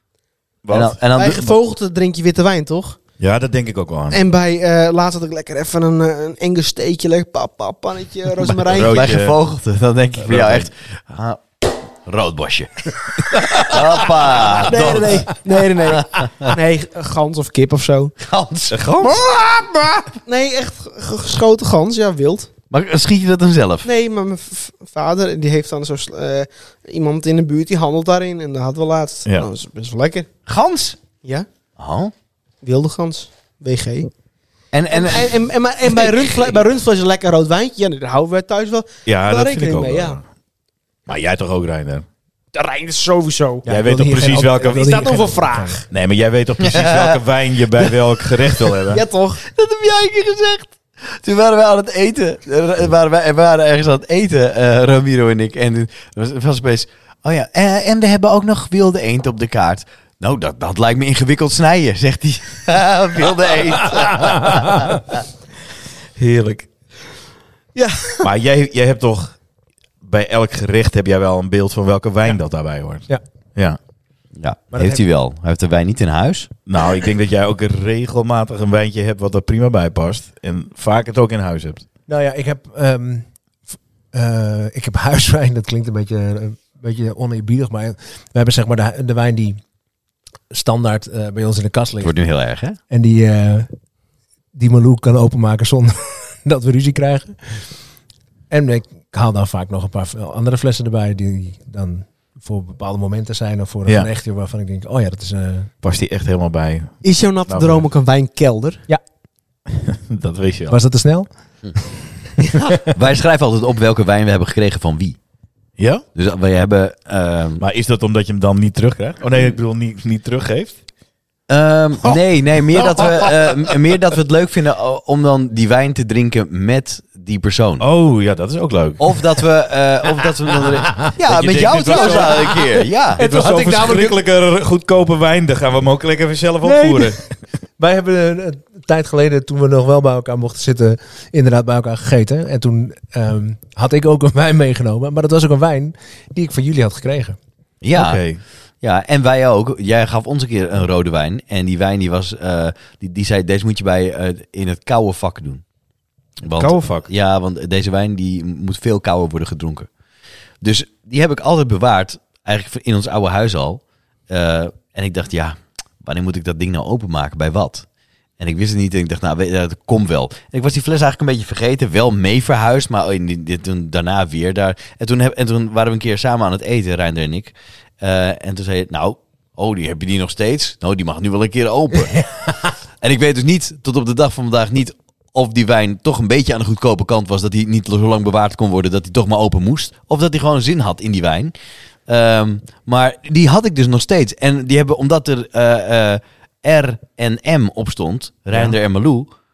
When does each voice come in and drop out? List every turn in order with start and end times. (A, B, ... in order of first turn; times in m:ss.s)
0:00.6-0:01.0 A
0:00.7-0:01.5 B
0:01.2-0:03.0 C
0:03.2-0:04.2 A
0:04.1-0:09.1 C
0:08.4-0:09.4 A
0:08.7-0:16.5 B
0:10.2-0:10.7 A
0:14.6-0:18.1 C
0:18.2-0:19.1 B
0:18.7-0:20.1 A
0:20.2-0:22.5 C
0:22.7-0:23.9 B
0:23.8-0:30.3 C
0:30.5-0:31.0 B
0:31.8-0:32.1 B
0:32.6-0:34.1 C
0:34.7-0:36.6 B
0:34.9-0:40.2 C
0:39.1-0:40.2 A
0:41.1-0:42.1 A
0:42.5-0:43.6 C
0:43.6-0:45.8 D
0:43.7-0:44.9 A
0:44.6-0:45.8 C
0:45.9-0:49.0 A
0:46.6-0:47.2 B
0:48.8-0:50.6 C
0:51.1-1:05.0 B
1:06.2-1:06.7 A
1:07.8-1:08.3 C
1:08.2-1:09.4 A
1:10.0-1:13.8 A
1:14.4-1:16.5 B
1:14.7-1:15.0 D
1:16.7-1:21.8 A
1:22.1-1:23.3 D
1:24.1-1:29.6 D
1:30.5-1:32.1 D
1:32.0-1:32.8 B
1:32.9-1:33.7 D
1:34.5-1:37.6 D
1:38.5-1:45.7 D
1:45.8-1:47.8 A
1:47.0-1:48.8 C
1:49.7-1:50.8 A
1:50.7-1:51.3 D
1:52.9-1:55.2 B
1:55.8-1:56.0 A
1:56.1-1:57.6 B
1:57.6-2:00.8 A
2:01.5-2:07.8 B
2:02.7-2:03.7 A
2:07.8-2:09.2 A
2:09.0-2:13.2 B
2:11.2-2:12.6 A
2:12.0-2:12.2 C
2:13.2-2:17.3 A
2:13.2-2:14.2 D
2:16.6-2:17.2 D
2:17.8-2:27.4 D
2:27.8-2:28.2 B
2:28.0-2:28.4 A
2:28.8-2:35.6 B
2:36.4-2:39.9 B
2:36.6-2:37.1 A
2:40.6-2:47.9 B
2:48.4-3:02.2 B
3:03.0-3:11.5 B
3:12.1-3:19.3 B